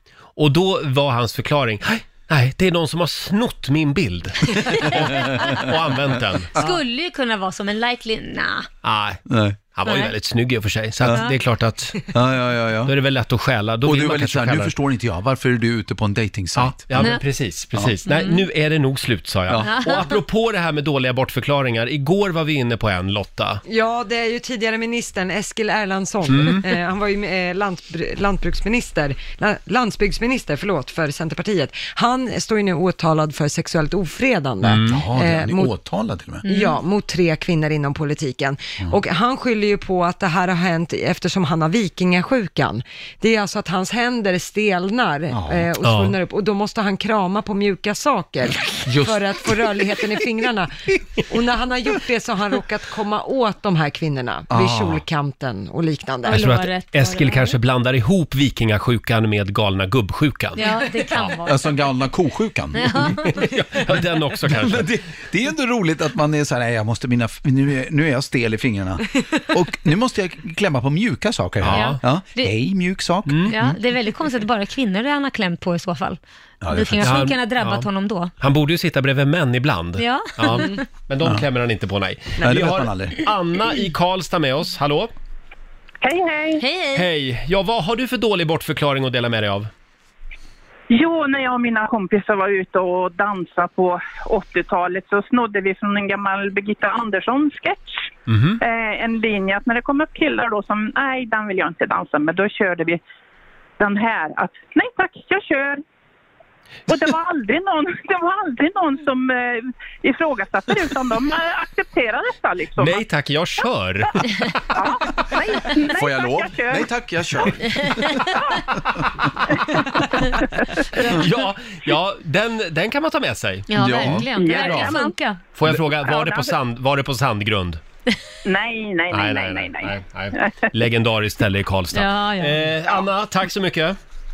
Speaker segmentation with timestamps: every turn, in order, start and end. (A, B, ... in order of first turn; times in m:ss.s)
0:00.4-0:06.5 A
0:04.8-0:05.5 B
0:05.1-0:05.6 C
0:06.5-0:06.8 C
0:06.5-0:08.7 B
0:08.8-0:12.1 A
0:09.3-0:09.6 C
0:09.8-0:10.1 B
0:12.1-0:12.9 C
0:12.8-0:14.7 A
0:13.8-0:17.2 C
0:16.6-0:23.6 A
0:17.0-0:17.2 B
0:17.7-0:18.0 C
0:18.0-0:18.4 B
0:19.5-0:19.8 C
0:19.6-0:20.1 B
0:23.6-0:35.7 D
0:26.3-0:26.6 A
0:34.6-0:35.0 A
0:34.8-0:36.4 C
0:36.4-0:36.8 B
0:36.4-0:56.4 D
0:45.3-0:45.7 C
0:45.8-0:46.1 A
0:48.8-0:49.2 C
0:54.5-0:55.0 C
0:56.2-0:57.6 B
0:56.3-1:01.3 A
1:00.6-1:01.8 B
1:01.4-1:03.2 C
1:02.7-1:03.4 B
1:03.1-1:04.9 A
1:04.5-1:13.7 C
1:11.6-1:12.0 A
1:11.7-1:12.5 B
1:13.3-1:13.7 A
1:13.5-1:16.2 B
1:16.6-1:17.3 C
1:16.7-1:18.3 B
1:17.0-1:17.8 A
1:18.4-1:25.1 A
1:20.0-1:20.8 B
1:22.4-1:23.2 C
1:26.0-1:26.6 E
1:26.6-1:27.0 B
1:26.9-1:29.7 A
1:30.9-1:38.0 E
1:38.3-1:38.6 A
1:38.6-1:43.0 E
1:43.8-1:45.8 E
1:46.9-1:53.0 E
1:52.8-1:54.5 A
1:54.7-1:56.9 E
1:55.9-1:59.0 C
1:57.7-1:58.2 B
2:01.0-2:03.7 A
2:03.7-2:05.4 B
2:03.7-2:05.0 C
2:04.3-2:05.2 E
2:05.5-2:07.8 A
2:05.7-2:06.5 E
2:08.4-2:10.5 E
2:09.1-2:14.0 A
2:11.9-2:12.6 B